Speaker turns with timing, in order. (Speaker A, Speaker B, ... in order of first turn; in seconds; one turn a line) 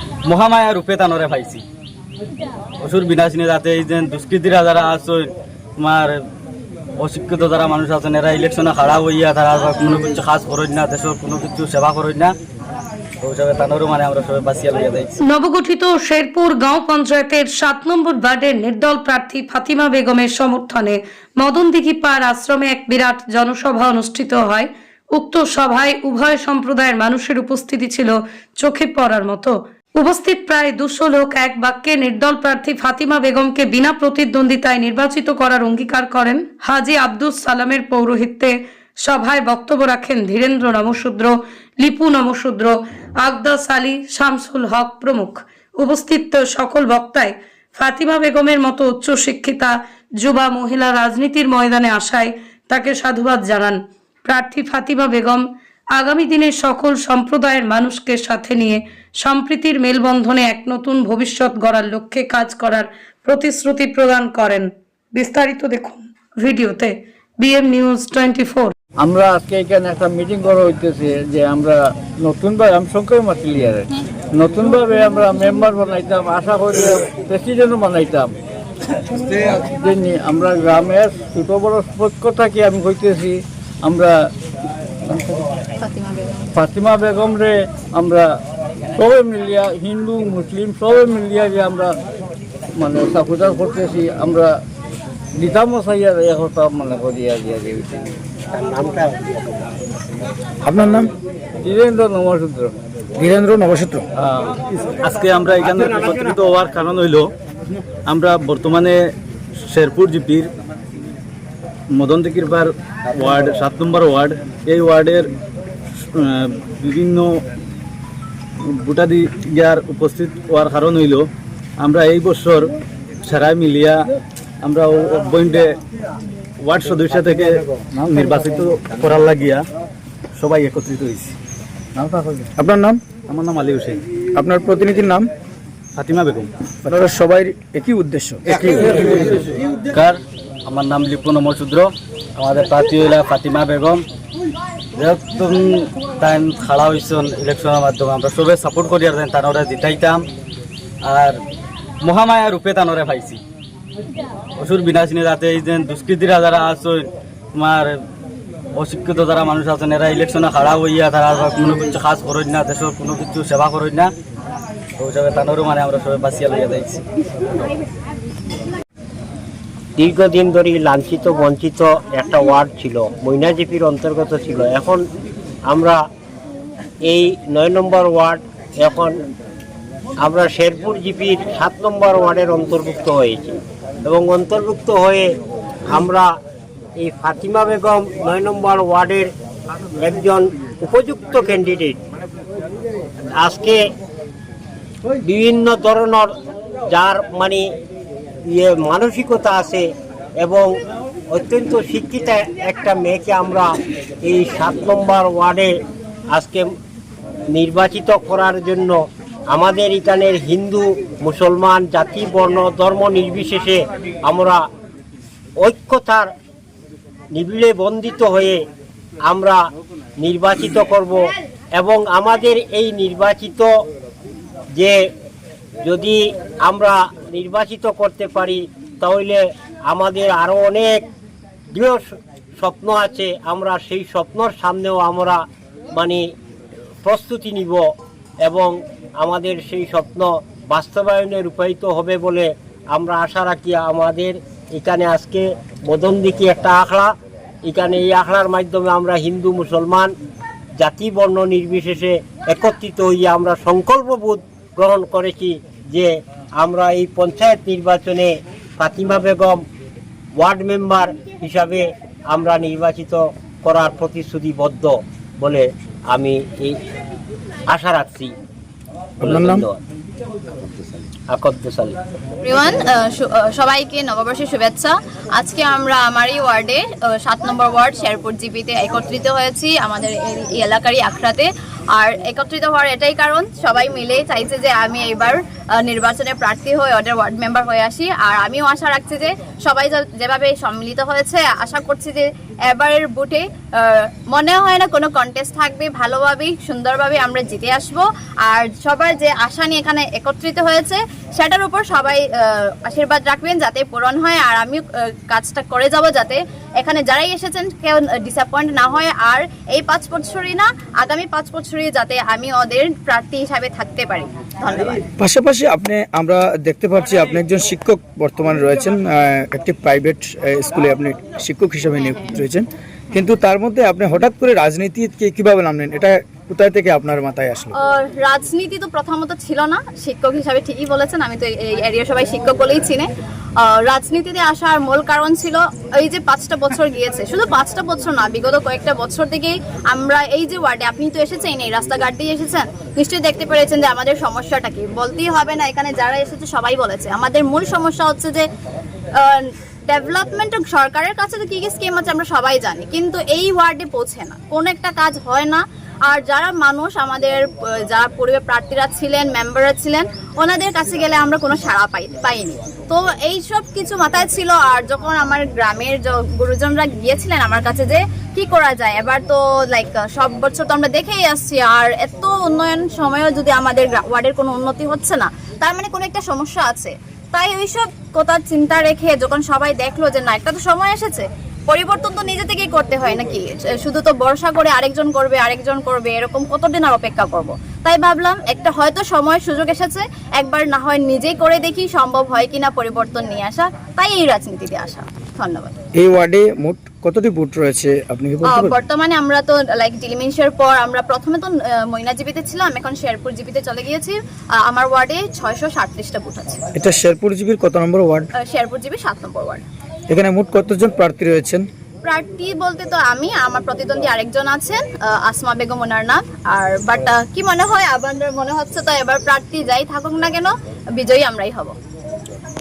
Speaker A: 0.2-1.6
Speaker A: 2.8-6.2
Speaker A: 7.0-12.3
Speaker A: 13.2-15.2
Speaker B: 15.2-68.7
Speaker C: 69.0-78.3
Speaker C: 79.5-84.3
Speaker C: 85.0-85.4
Speaker D: 85.8-86.5
Speaker C: 86.5-88.3
Speaker C: 89.0-92.0
Speaker C: 92.8-94.5
Speaker C: 95.3-98.1
Speaker E: 98.5-99.7
Speaker F: 100.6-101.1
Speaker C: 101.6-102.7
Speaker F: 103.2-104.0
Speaker C: 104.2-104.5
Speaker A: 105.0-107.3
Speaker E: 105.7-106.2
Speaker A: 108.1-109.0
Speaker A: 109.7-110.5
Speaker A: 111.9-115.2
Speaker A: 116.1-117.3
Speaker A: 118.8-121.3
Speaker A: 121.8-122.7
Speaker A: 123.2-124.0
Speaker A: 124.6-125.7
Speaker A: 126.6-127.5
Speaker C: 128.0-128.3
Speaker A: 128.1-129.6
Speaker A: 130.4-131.3
Speaker C: 131.9-132.5
Speaker F: 132.6-133.0
Speaker A: 133.3-134.0
Speaker F: 134.3-135.3
Speaker A: 136.0-136.5
Speaker F: 136.8-138.4
Speaker A: 138.5-144.0
Speaker A: 144.9-150.2
Speaker A: 151.0-151.4
Speaker A: 152.0-153.4
Speaker A: 154.6-157.9
Speaker A: 158.7-164.1
Speaker A: 165.0-167.0
Speaker E: 170.0-175.0
Speaker E: 175.7-176.0
Speaker E: 177.1-179.2
Speaker E: 180.2-185.3
Speaker E: 185.9-186.3
Speaker E: 187.0-189.3
Speaker E: 190.0-192.0
Speaker E: 193.4-193.8
Speaker E: 195.2-196.3
Speaker E: 196.9-197.6
Speaker E: 198.5-199.8
Speaker E: 200.4-200.7
Speaker E: 201.3-203.7
Speaker E: 204.2-205.7
Speaker E: 206.3-206.7
Speaker E: 207.5-209.0
Speaker E: 209.5-214.6
Speaker E: 215.6-216.3
Speaker E: 217.3-218.6
Speaker E: 219.3-219.6
Speaker E: 220.2-221.2
Speaker E: 221.8-223.7
Speaker E: 225.8-231.0
Speaker E: 231.7-232.1
Speaker E: 232.6-236.2
Speaker E: 237.0-237.8
Speaker E: 238.4-247.1
Speaker E: 247.6-250.1
Speaker E: 250.8-259.6
Speaker E: 260.4-266.8
Speaker E: 267.7-268.3
Speaker E: 269.2-269.8
Speaker F: 269.2-269.7
Speaker E: 271.3-271.9
Speaker D: 272.4-315.0
Speaker F: 315.2-327.7
Speaker D: 327.7-333.1
Speaker D: 333.6-348.4
Speaker D: 349.2-395.7
Speaker F: 395.9-398.7
Speaker D: 398.5-406.6
Speaker F: 406.7-408.3
Speaker D: 408.4-409.6
Speaker F: 410.1-411.7
Speaker D: 412.0-421.7